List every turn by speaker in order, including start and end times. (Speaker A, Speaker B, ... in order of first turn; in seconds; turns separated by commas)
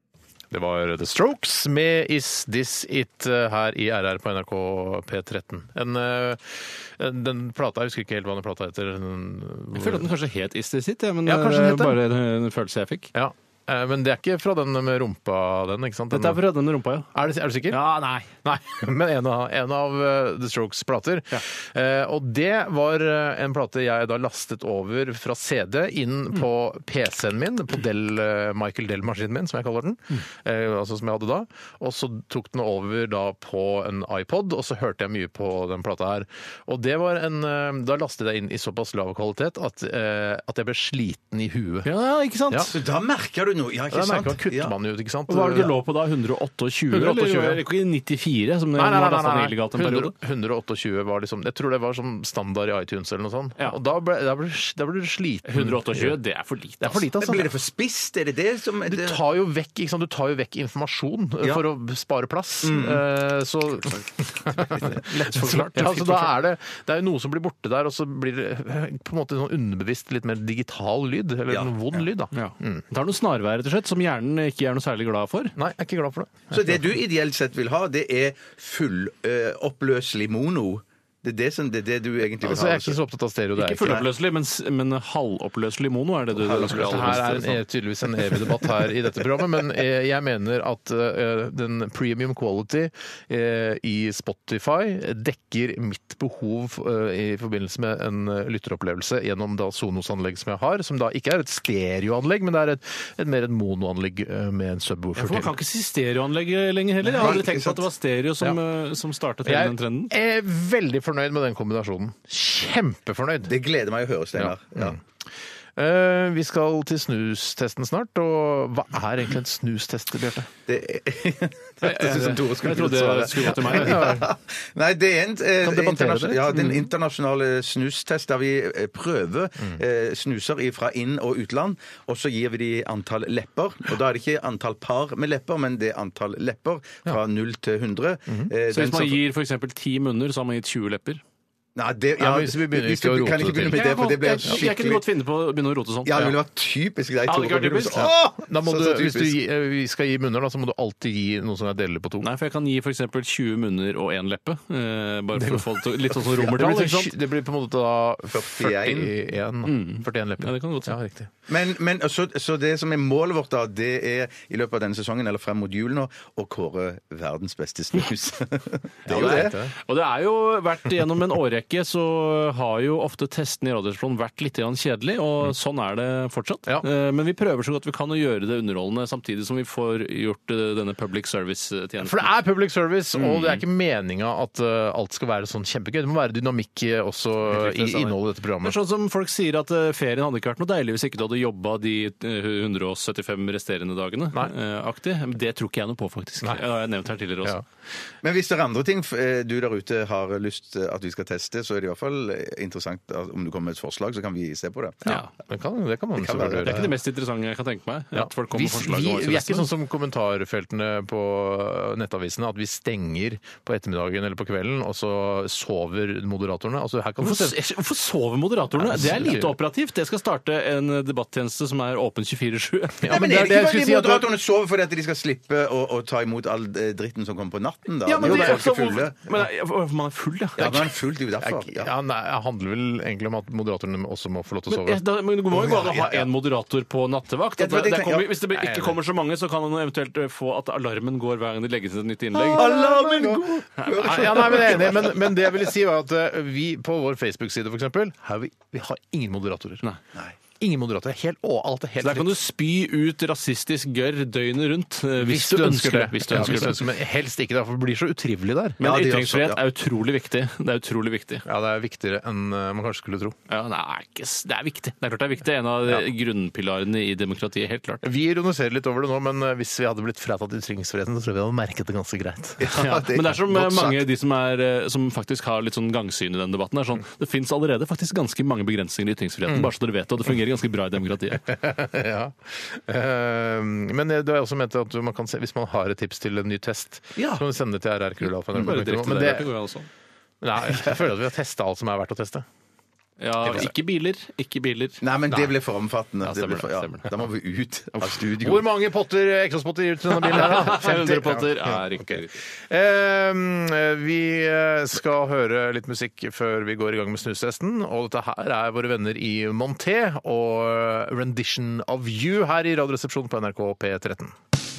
Speaker A: 0.5-10.1, Speaker B: 9.7-13.1, Speaker A: 11.2-12.0, Speaker A: 13.1-16.4, Speaker B: 16.1-17.1, Speaker A: 17.1-17.8, Speaker B: 17.7-18.3, Speaker A: 18.3-41.9, Speaker B: 41.8-42.7, Speaker C: 42.7-44.7, Speaker A: 43.9-45.7, Speaker B: 45.3-50.1, Speaker A: 46.9-47.6, Speaker A: 48.8-56.2, Speaker B: 55.4-57.0, Speaker A: 56.8-57.5, Speaker C: 57.2-59.2, Speaker A: 58.9-72.8, Speaker C: 62.6-63.0, Speaker B: 65.0-66.3, Speaker C: 71.5-72.0, Speaker B: 72.3-75.5, Speaker A: 75.5-76.8, Speaker C: 76.5-83.0, Speaker A: 82.4-84.0, Speaker B: 83.6-87.6, Speaker C: 86.4-87.4, Speaker A: 86.6-105.5, Speaker B: 105.2-110.1, Speaker C: 107.1-107.8, Speaker A: 109.4-113.5, Speaker C: 113.5-115.0, Speaker A: 114.3-115.0, Speaker A: 115.8-120.5, Speaker C: 120.7-139.2, Speaker B: 121.8-124.2, Speaker A: 123.5-124.3, Speaker A: 125.6-126.8, Speaker B: 138.7-141.2, Speaker C: 141.8-145.0, Speaker A: 142.2-144.6, Speaker B: 143.6-146.3, Speaker C: 146.0-149.4, Speaker B: 147.3-148.1, Speaker A: 148.0-152.3, Speaker B: 152.2-157.1, Speaker A: 155.3-161.3, Speaker C: 158.3-159.1, Speaker B: 159.6-160.9, Speaker C: 161.5-169.5, Speaker A: 169.1-169.7, Speaker B: 169.1-182.3, Speaker A: 182.0-188.8, Speaker B: 183.1-183.6, Speaker B: 187.5-197.6, Speaker C: 198.2-205.1, Speaker A: 205.1-206.9, Speaker C: 206.2-206.9, Speaker B: 206.6-209.7, Speaker A: 208.1-217.6, Speaker B: 217.2-223.1, Speaker A: 218.7-219.6, Speaker A: 223.0-224.3, Speaker C: 223.1-229.1, Speaker B: 228.0-230.9, Speaker A: 228.2-229.0, Speaker C: 230.6-231.9, Speaker A: 231.4-235.0, Speaker B: 234.7-242.8, Speaker C: 235.5-236.3, Speaker C: 237.6-238.4, Speaker A: 238.5-239.0, Speaker C: 242.5-245.6, Speaker A: 242.5-249.8, Speaker B: 243.8-244.9, Speaker A: 250.6-252.4, Speaker B: 252.0-256.9, Speaker A: 255.2-258.8, Speaker B: 258.8-261.4, Speaker C: 258.8-259.6, Speaker A: 261.4-263.4, Speaker B: 263.5-268.0, Speaker A: 268.0-272.9, Speaker C: 272.6-274.0, Speaker B: 272.7-281.5, Speaker A: 281.4-289.5, Speaker C: 287.1-287.4, Speaker B: 288.5-289.9, Speaker A: 290.4-292.4, Speaker B: 293.2-295.0, Speaker A: 293.4-293.7, Speaker C: 295.0-298.7, Speaker B: 296.2-297.1, Speaker A: 298.3-314.3, Speaker B: 300.2-302.4